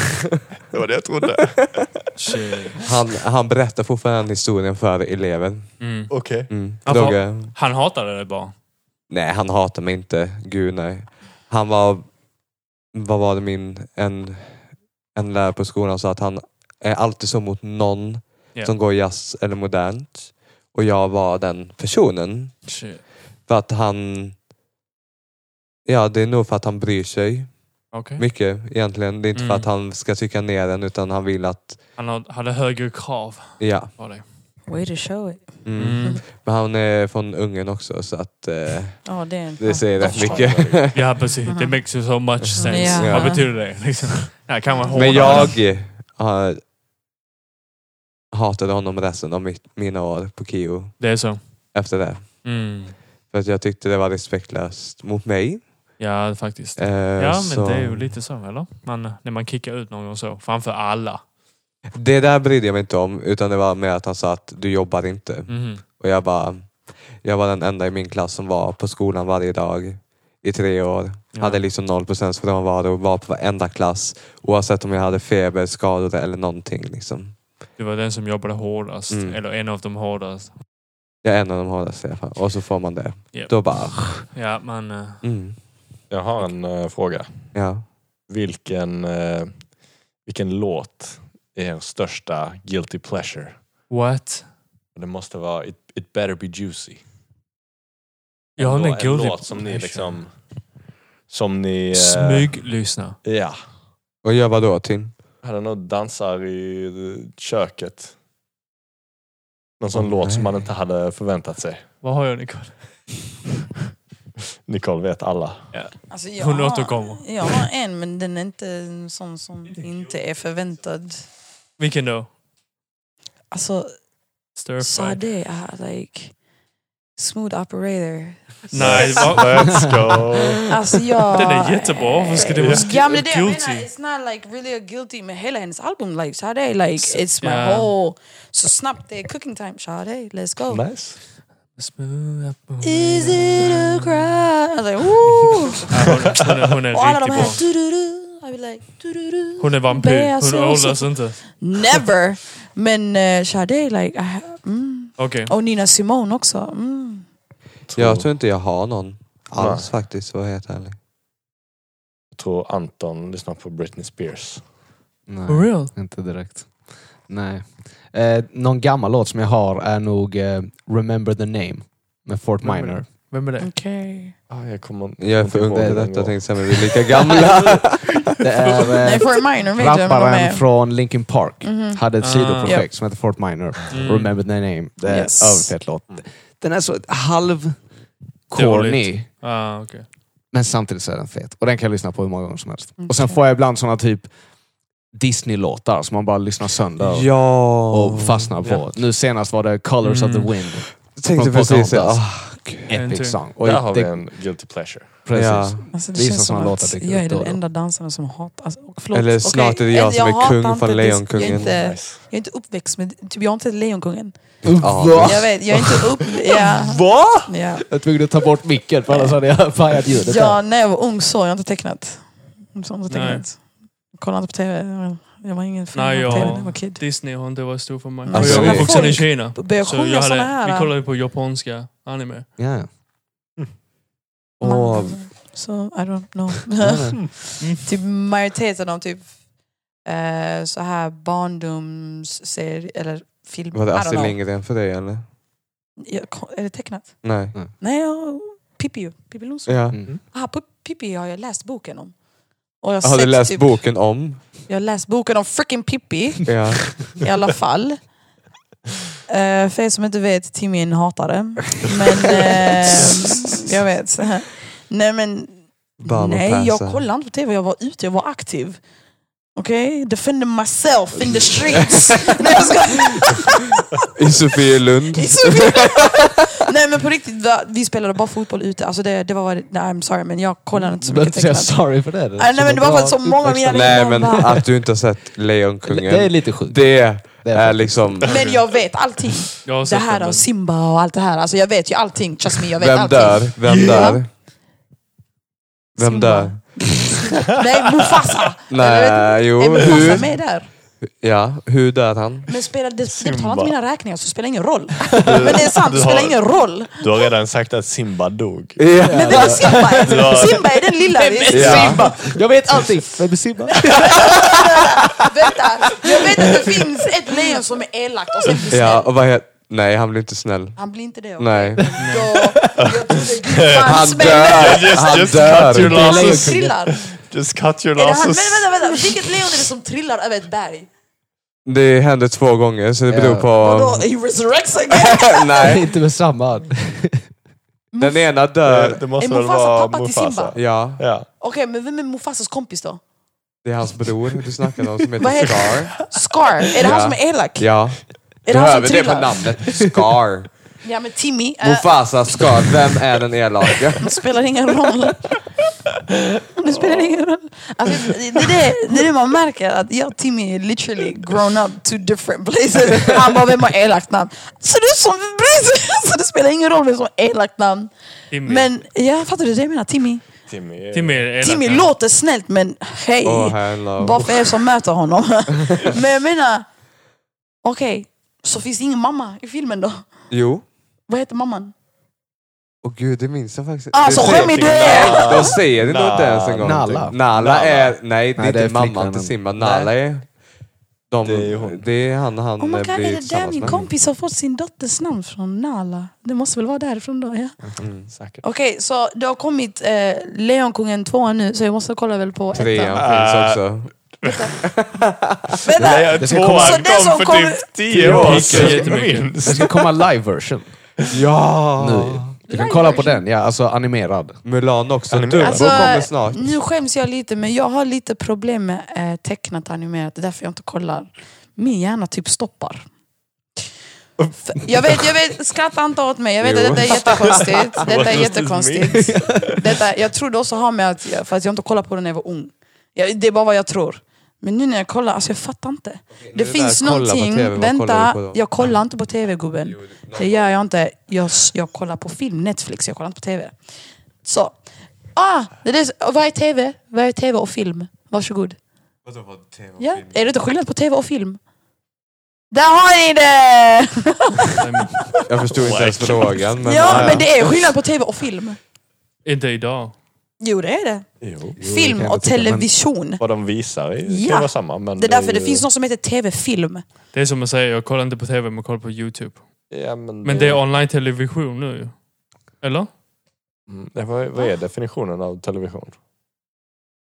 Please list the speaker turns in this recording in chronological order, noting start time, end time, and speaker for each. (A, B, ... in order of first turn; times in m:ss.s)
0:00.7-0:02.1 A
0:02.2-0:02.8 B
0:02.8-0:07.5 C
0:05.8-0:08.6 B
0:06.1-0:06.5 A
0:09.1-0:12.1 C
0:12.9-0:22.8 C
0:22.7-0:23.0 B
0:23.5-0:24.4 C
0:25.9-0:27.6 C
0:27.9-0:28.3 B
0:28.1-0:31.8 C
0:29.4-0:29.7 B
0:32.0-0:34.3 B
0:33.6-0:33.9 C
0:34.7-0:36.2 D
0:35.6-0:41.2 C
0:35.8-0:36.2 B
0:39.0-0:40.5 D
0:40.0-0:41.2 A
0:40.9-0:45.6 B
0:41.4-0:41.8 D
0:42.4-0:43.5 C
0:42.6-0:43.6 D
0:44.9-0:46.6 C
0:45.2-0:45.4 A
0:48.3-0:52.8 C
0:51.0-0:51.7 B
0:52.4-0:53.0 B
0:53.3-0:55.8 C
0:56.0-1:01.2 B
0:56.8-0:58.2 C
1:02.0-1:17.4 C
1:05.5-1:05.8 B
1:11.3-1:11.6 B
1:17.8-1:20.6 B
1:19.1-1:19.4 C
1:21.2-1:24.3 C
1:23.3-1:25.2 B
1:25.2-1:25.6 C
1:26.1-1:27.7 A
1:27.5-1:27.9 C
1:28.3-1:33.6 A
1:33.9-1:34.5 B
1:35.0-1:37.1 A
1:38.6-1:40.2 B
1:38.6-1:40.4 A
1:41.3-1:42.7 A
1:41.9-1:43.2 B
1:43.2-1:43.6 A
1:44.2-1:45.1 C
1:45.4-1:48.2 A
1:49.8-1:52.0 A
1:50.0-1:50.7 C
1:52.0-1:53.1 B
1:54.7-1:55.7 A
1:55.7-1:57.3 B
1:56.1-2:01.2 D
2:01.8-2:02.3 B
2:03.5-2:03.9 D
2:04.6-2:05.2 B
2:04.8-2:06.4 D
2:07.2-2:09.8 D
2:08.7-2:09.9 B
2:08.7-2:10.9 A
2:10.7-2:20.9 D
2:11.3-2:13.9 B
2:12.5-2:13.1 A
2:17.0-2:17.9 B
2:20.7-2:21.2 A
2:21.8-2:24.2 B
2:22.8-2:25.9 D
2:25.9-2:27.6 B
2:26.9-2:37.3 D
2:29.6-2:31.4 B
2:35.2-2:35.5 B
2:37.9-2:38.3 A
2:38.0-2:41.0 C
2:39.6-2:39.9 A
2:42.3-2:44.7 A
2:45.3-2:53.1 E
2:45.5-2:45.9 B
2:52.6-2:53.7 B
2:53.6-2:54.4 D
2:54.5-2:58.4 A
2:55.2-2:58.2 C
2:55.6-2:56.1 E
2:58.4-3:07.9 E
2:59.0-3:00.6 D
3:01.6-3:02.0 D
3:02.2-3:02.8 B
3:03.9-3:04.4 B
3:05.1-3:05.8 D
3:08.5-3:09.3 E
3:08.5-3:10.1 B
3:10.5-3:14.3 E
3:13.0-3:13.4 D
3:15.1-3:24.3 E
3:17.0-3:18.5 C
3:20.0-3:20.5 B
3:21.1-3:23.1 C
3:22.9-3:23.4 B
3:23.6-3:25.2 A
3:25.2-3:27.6 E
3:25.3-3:25.9 C
3:25.9-3:34.6 D
3:29.1-3:31.7 C
3:31.4-3:32.2 A
3:34.6-3:35.5 E
3:34.8-3:35.6 C
3:35.2-3:37.8 D
3:36.7-3:37.5 A
3:37.9-3:40.6 E
3:39.1-3:39.4 D
3:40.3-3:47.0 D
3:43.1-3:43.5 B
3:45.9-3:52.5 B
3:48.2-3:50.9 D
3:48.3-3:49.3 C
3:52.6-3:52.9 E
3:54.6-3:55.3 C
3:54.6-3:59.3 D
3:56.8-3:57.2 E
3:57.6-3:57.8 B
4:00.0-4:04.4 D
4:03.7-4:05.3 C
4:06.1-4:12.1 D
4:07.2-4:07.5 C
4:09.7-4:10.0 C
4:12.8-4:13.8 D
4:13.0-4:14.5 C
4:14.7-4:18.1 D
4:16.5-4:17.2 C
4:19.3-4:28.8 D
4:26.0-4:27.0 C
4:29.6-4:33.8 D
4:34.2-4:36.2 C
4:35.1-4:44.6 D
4:40.7-4:44.0 E
4:43.7-4:48.4 C
4:45.8-4:48.3 E
4:48.2-4:48.6 A
4:48.2-4:54.2 D
4:49.6-4:50.5 B
4:52.8-4:54.3 C
4:53.7-4:54.2 A
4:56.0-4:56.9 C
4:56.0-5:00.7 D
4:58.7-5:00.4 C
5:01.2-5:02.5 C
5:02.5-5:07.2 D
5:03.1-5:03.7 A
5:05.1-5:09.0 A
5:08.8-5:09.8 C
5:09.0-5:15.1 E
5:09.1-5:12.1 D
5:09.8-5:10.7 A
5:11.5-5:12.0 C
5:11.7-5:12.4 A
5:13.9-5:19.1 D
5:16.3-5:16.7 E
5:18.7-5:22.2 C
5:20.8-5:25.2 D
5:22.0-5:22.3 B
5:22.8-5:29.4 A
5:23.9-5:26.1 C
5:25.6-5:26.8 E
5:25.7-5:27.0 D
5:28.0-5:30.9 D
5:31.7-5:34.1 C
5:33.1-5:33.5 E
5:33.6-5:35.8 D
5:34.9-5:35.8 C
5:35.6-5:37.2 E
5:37.9-5:38.3 D
5:38.0-5:39.0 C
5:38.6-5:41.3 A
5:39.2-5:40.8 D
5:40.6-5:41.1 C
5:41.4-5:43.0 D
5:43.6-5:46.0 C
5:45.2-5:47.7 D
5:46.8-5:50.5 C
5:48.4-5:49.5 D
5:50.8-5:51.9 D
5:51.6-5:54.3 C
5:54.0-5:55.4 D
5:56.6-6:07.9 D
6:08.3-6:08.7 B
6:08.4-6:10.3 D
6:10.5-6:11.3 A
6:10.9-6:11.9 B
6:11.4-6:16.7 D
6:13.2-6:14.5 C
6:17.6-6:20.1 D
6:20.3-6:20.7 C
6:21.1-6:21.7 D
6:22.8-6:30.3 C
6:23.9-6:25.6 D
6:24.2-6:28.0 A
6:26.6-6:27.4 E
6:28.4-6:29.9 E
6:31.1-6:33.8 C
6:31.2-6:31.9 A
6:32.6-6:37.6 D
6:37.8-6:38.1 C
6:38.1-6:38.4 A
6:38.4-6:43.0 D
6:42.5-6:45.5 C
6:42.9-6:44.5 A
6:44.2-6:44.6 D
6:45.7-6:47.7 D
6:45.7-6:50.0 A
6:46.2-6:46.9 E
6:48.0-6:48.8 E
6:48.0-6:48.9 C
6:48.0-6:49.3 B
6:49.4-6:50.8 E
6:51.1-6:52.3 C
6:51.8-6:54.4 E
6:52.5-6:53.3 D
6:54.4-6:56.6 C
6:55.1-6:56.0 A
6:55.4-7:02.8 D
7:04.2-7:05.0 A
7:04.5-7:23.7 D
7:06.4-7:07.5 C
7:07.4-7:09.6 A
7:16.1-7:18.6 C
7:19.6-7:20.6 C
7:24.2-7:28.6 D
7:29.0-7:30.3 C
7:29.8-7:31.4 D
7:32.5-7:35.3 D
7:34.6-7:35.0 B
7:35.3-7:37.4 C
7:35.5-7:36.8 A
7:36.6-7:38.6 D
7:36.8-7:37.3 E
7:39.2-7:40.0 B
7:40.4-7:43.3 D
7:41.2-7:41.6 A
7:41.6-7:42.7 E
7:43.2-7:45.7 A
7:44.0-7:46.8 D
7:47.1-7:52.9 B
7:49.7-7:50.6 A
7:53.7-7:56.0 A